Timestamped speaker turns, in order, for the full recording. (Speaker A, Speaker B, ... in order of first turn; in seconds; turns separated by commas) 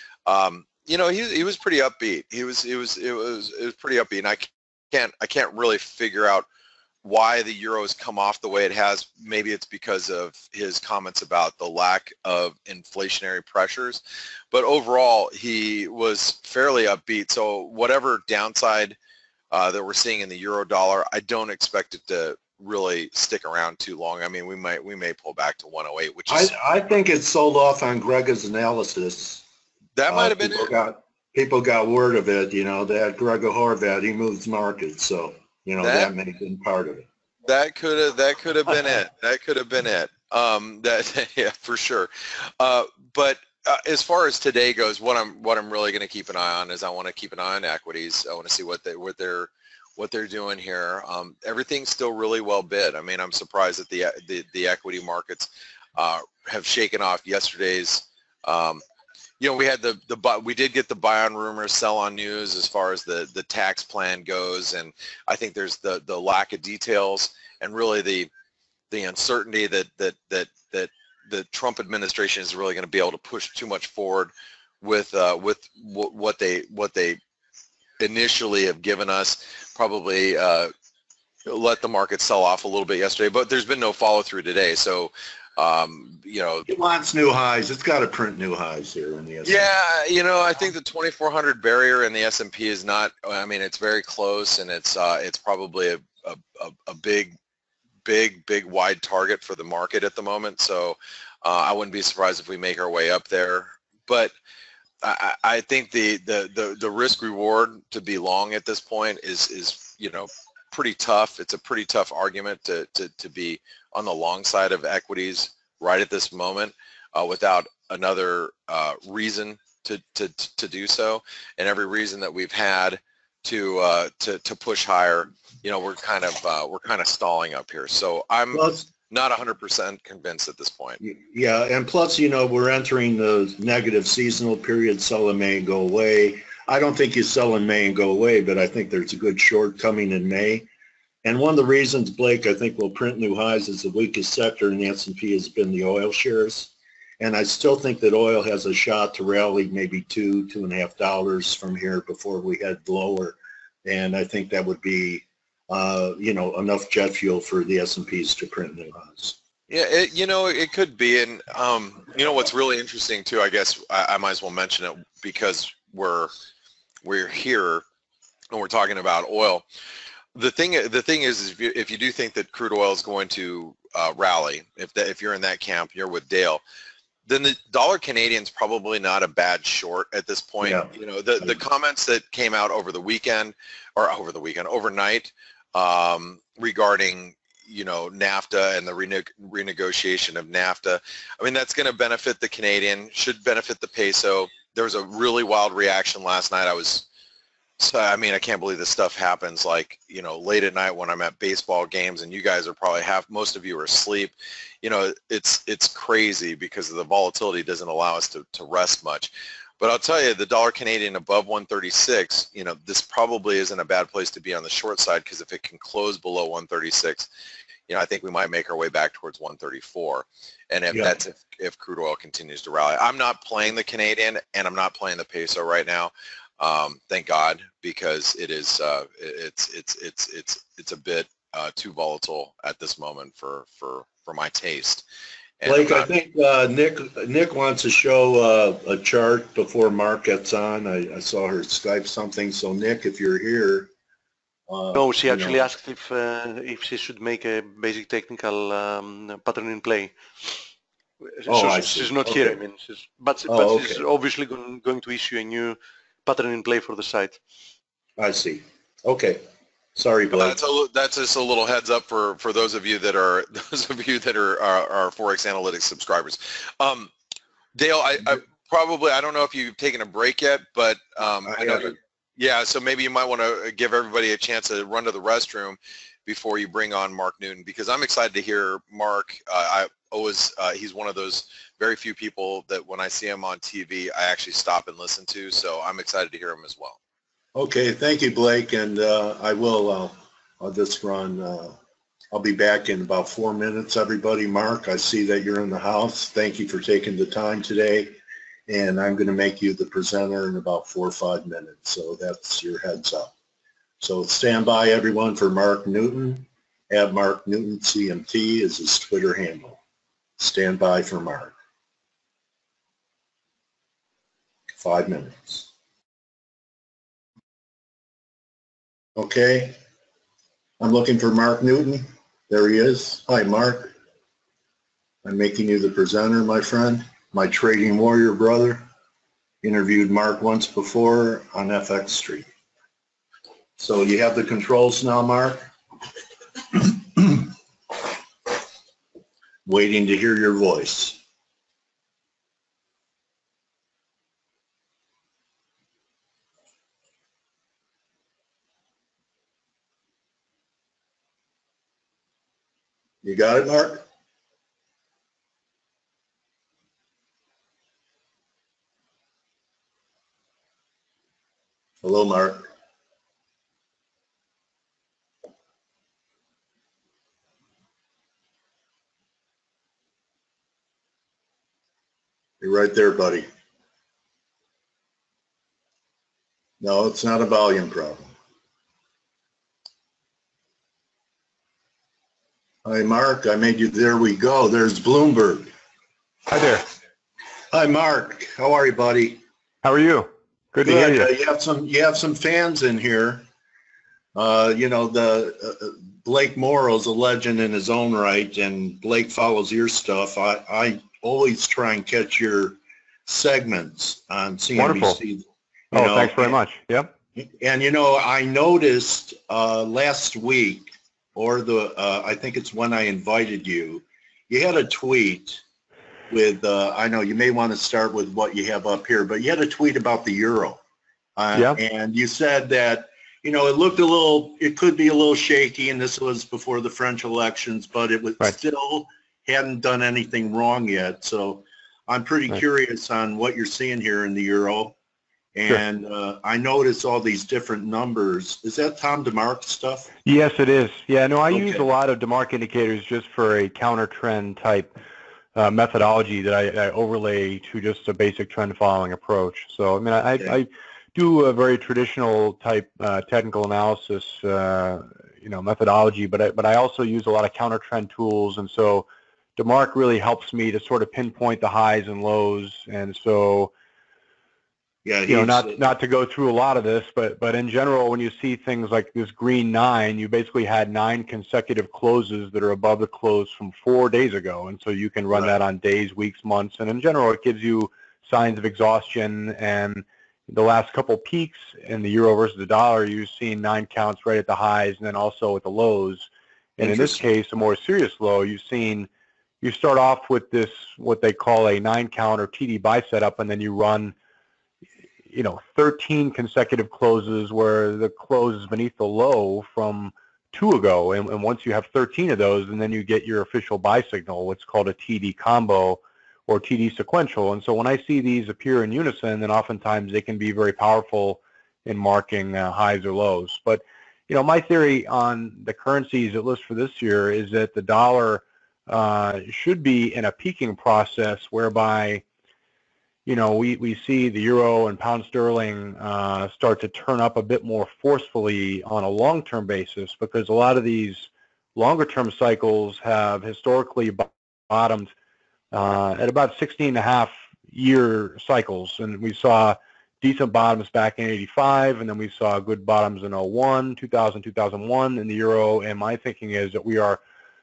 Speaker A: 0.3-6.5, Speaker A: 7.0-14.0, Speaker A: 14.5-19.0, Speaker A: 19.5-26.5, Speaker B: 26.3-29.4, Speaker A: 30.0-30.7, Speaker B: 30.1-37.1, Speaker A: 35.8-36.1, Speaker A: 37.5-58.8, Speaker A: 59.4-68.3, Speaker A: 68.9-77.2, Speaker A: 78.0-80.7, Speaker A: 81.5-86.7, Speaker B: 86.7-89.7, Speaker A: 89.5-97.3, Speaker A: 98.0-104.3, Speaker A: 105.0-131.0, Speaker B: 128.5-128.9, Speaker B: 131.0-140.7, Speaker B: 141.2-159.4, Speaker A: 159.7-166.3, Speaker A: 167.0-167.8, Speaker A: 168.5-169.7, Speaker A: 170.3-176.6, Speaker A: 177.3-197.1, Speaker B: 180.6-181.6, Speaker A: 197.8-217.3, Speaker A: 217.9-235.0, Speaker B: 220.9-221.2, Speaker A: 235.6-236.1, Speaker B: 235.7-243.9, Speaker B: 244.7-245.6, Speaker C: 244.9-250.5, Speaker C: 251.4-257.4, Speaker B: 251.5-252.6, Speaker B: 253.5-254.0, Speaker B: 258.2-260.6, Speaker A: 260.3-267.1, Speaker A: 267.8-287.0, Speaker B: 271.5-272.0, Speaker B: 287.6-291.8, Speaker B: 292.3-298.1, Speaker B: 298.7-303.3, Speaker B: 304.0-309.8, Speaker B: 310.4-311.5, Speaker B: 314.8-315.7, Speaker B: 319.2-319.8, Speaker B: 320.8-323.9, Speaker B: 325.2-328.9, Speaker B: 329.6-332.5, Speaker B: 333.8-335.7, Speaker B: 336.7-337.5, Speaker B: 339.6-341.2, Speaker B: 353.2-354.1, Speaker B: 362.0-362.7, Speaker B: 372.6-373.5, Speaker B: 376.8-378.3, Speaker B: 382.9-385.7, Speaker D: 386.5-386.8, Speaker B: 387.7-389.4, Speaker D: 389.8-391.3, Speaker B: 390.8-393.5, Speaker B: 394.4-406.6, Speaker D: 404.8-405.2, Speaker D: 405.9-407.1, Speaker B: 407.4-415.6, Speaker B: 416.3-420.8, Speaker B: 421.4-435.0, Speaker B: 435.6-440.1, Speaker D: 440.2-444.9, Speaker B: 441.5-441.9, Speaker D: 445.6-463.7, Speaker B: 465.1-465.8, Speaker D: 465.3-489.1, Speaker B: 486.8-487.2, Speaker D: 489.6-494.1, Speaker D: 495.3-522.2, Speaker D: 523.3-535.1, Speaker D: 535.7-547.2